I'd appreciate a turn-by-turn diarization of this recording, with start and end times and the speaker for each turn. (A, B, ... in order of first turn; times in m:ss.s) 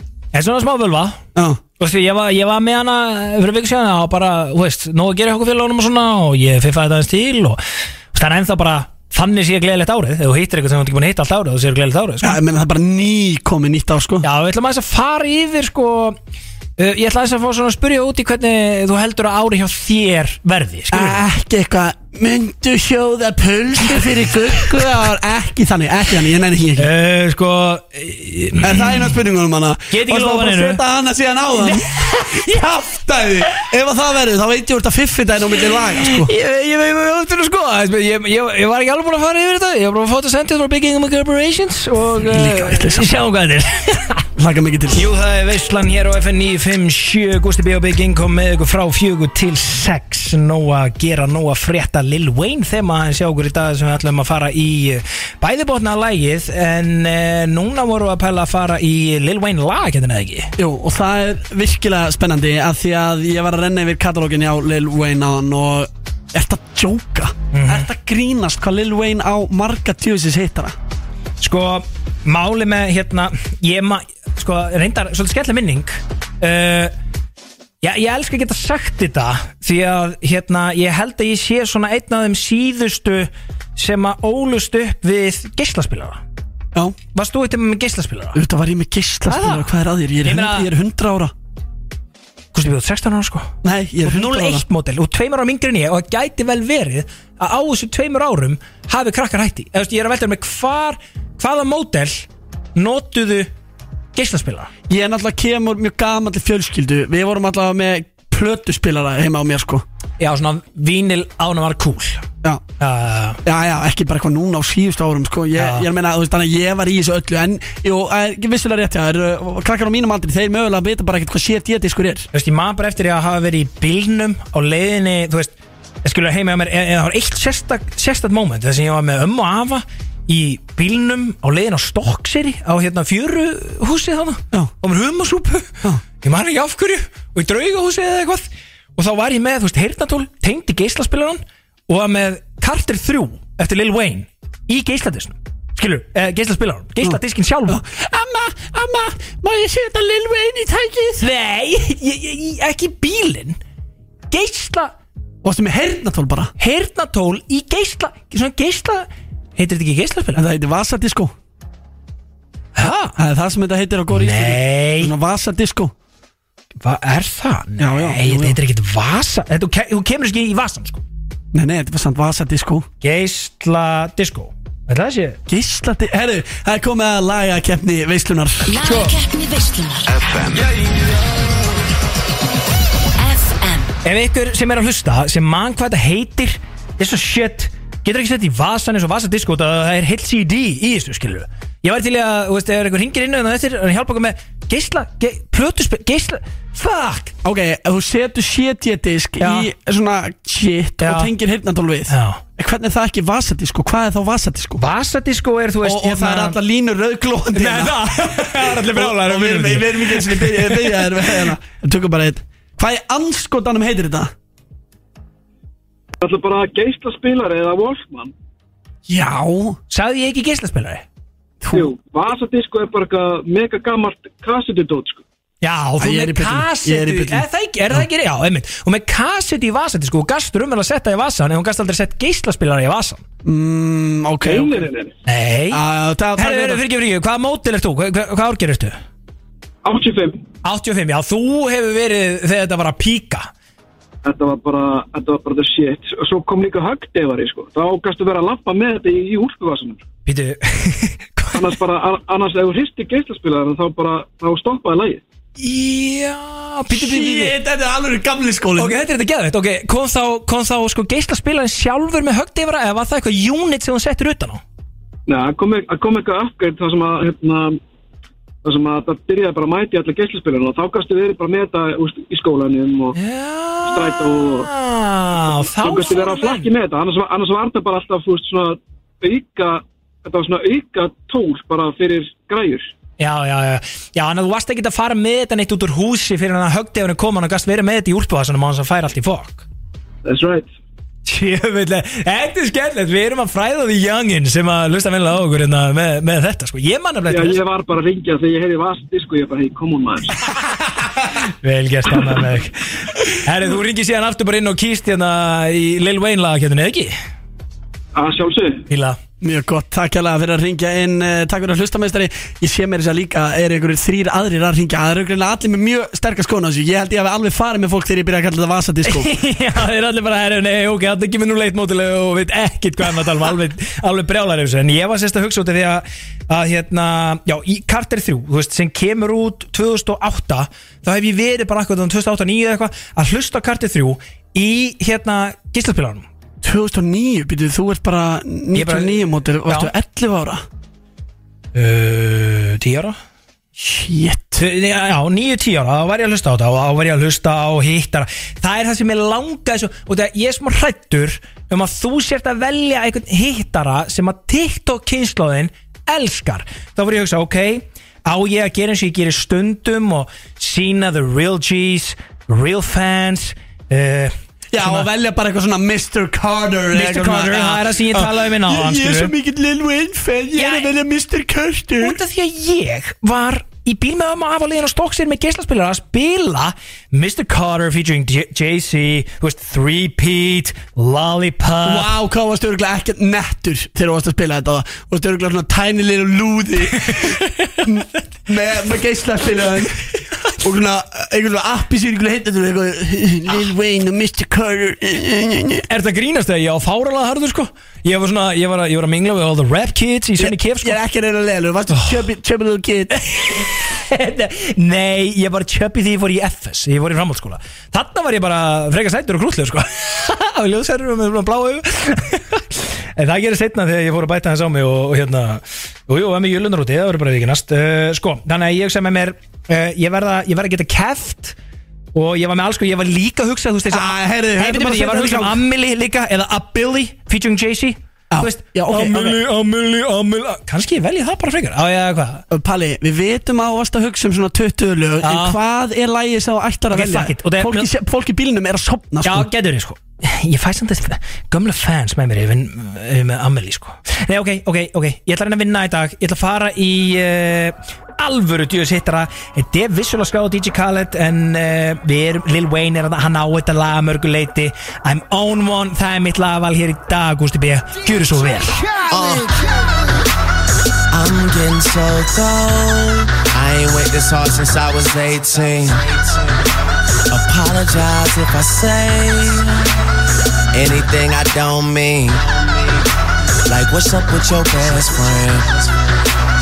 0:00.3-0:01.2 A
0:01.3-0:01.6 B
0:01.8-0:07.6 A
0:08.1-0:12.4 A
0:12.2-0:14.2 B
0:14.2-0:16.2 A
0:16.8-0:21.2 A
0:20.9-0:26.9 B
0:26.8-0:29.1 A
0:28.6-0:36.3 B
0:29.9-0:30.8 A
0:31.6-0:32.6 A
0:35.9-0:44.3 A
0:42.2-0:43.2 B
0:44.4-0:45.1 B
0:44.9-1:00.5 A
1:00.6-1:10.7 B
1:07.5-1:07.9 A
1:11.4-1:16.9 A
1:17.8-1:26.2 A
1:27.1-1:28.4 A
1:28.3-1:31.3 B
1:29.3-1:29.6 A
1:30.2-1:30.7 A
1:32.5-1:33.5 A
1:33.6-1:34.6 B
1:34.0-1:43.5 A
1:44.1-1:44.7 A
1:44.9-1:49.8 B
1:50.2-1:52.2 A
1:52.8-1:53.4 A
1:53.4-2:02.3 B
1:55.6-1:55.9 A
2:02.3-2:05.5 A
2:06.0-2:27.8 A
2:27.0-2:31.2 B
2:31.2-2:33.6 A
2:34.3-2:34.9 A
2:35.4-2:36.5 B
2:36.6-2:40.4 A
2:40.3-2:41.3 B
2:42.8-2:43.2 A
2:43.2-2:45.9 B
2:44.1-2:45.1 A
2:46.8-2:51.0 A
2:47.8-2:48.6 B
2:51.5-2:52.9 B
2:53.0-2:55.4 A
2:55.5-2:58.8 B
2:58.7-3:00.2 C
2:58.8-2:59.1 A
3:03.2-3:03.9 C
3:04.0-3:17.3 A
3:17.4-3:24.8 B
3:19.4-3:19.7 A
3:21.0-3:21.3 A
3:22.1-3:22.4 A
3:24.8-3:26.6 A
3:25.8-3:34.3 B
3:27.5-3:31.2 A
3:36.2-3:38.3 D
3:39.1-3:39.8 B
3:39.9-3:41.0 A
3:41.6-3:41.9 B
3:41.7-3:45.2 D
3:45.6-3:53.2 A
3:46.0-3:48.0 B
3:53.4-3:54.8 B
3:54.4-3:55.2 D
3:55.2-3:55.8 A
3:55.7-3:56.8 B
3:56.4-3:59.0 A
3:59.8-4:00.4 D
4:00.6-4:03.5 A
4:04.2-4:10.0 D
4:10.2-4:11.7 A
4:11.5-4:15.2 D
4:15.6-4:17.5 A
4:16.9-4:19.0 B
4:18.8-4:24.6 A
4:25.3-4:27.8 D
4:28.6-4:33.2 D
4:33.1-4:36.7 A
4:33.8-4:34.7 D
4:35.5-4:42.9 D
4:43.2-4:49.6 A
4:50.2-4:50.7 D
4:51.2-4:57.6 A
4:57.3-5:00.3 D
5:01.6-5:07.1 A
5:08.1-5:08.8 D
5:08.9-5:09.2 A
5:09.4-5:19.3 B
5:19.0-5:36.2 A
5:36.6-5:40.6 B
5:38.7-5:39.9 A
5:41.7-5:43.2 A
5:43.8-5:44.6 B
5:44.6-6:05.1 A
6:04.7-6:12.2 B
6:06.9-6:09.3 A
6:10.5-6:10.9 A
6:12.0-6:22.1 A
6:21.8-6:30.0 B
6:27.0-6:27.8 A
6:30.6-6:35.8 B
6:35.9-6:41.0 A
6:40.4-6:43.2 B
6:43.2-7:01.6 A
7:02.1-7:12.4 A
7:03.9-7:05.6 B
7:08.3-7:09.4 B
7:12.5-7:19.5 B
7:15.2-7:15.6 A
7:16.9-7:17.9 A
7:19.2-7:38.8 A
7:39.1-7:39.6 E
7:41.1-7:46.5 E
7:47.3-7:49.9 E
7:50.7-7:53.0 E
7:53.6-7:55.9 E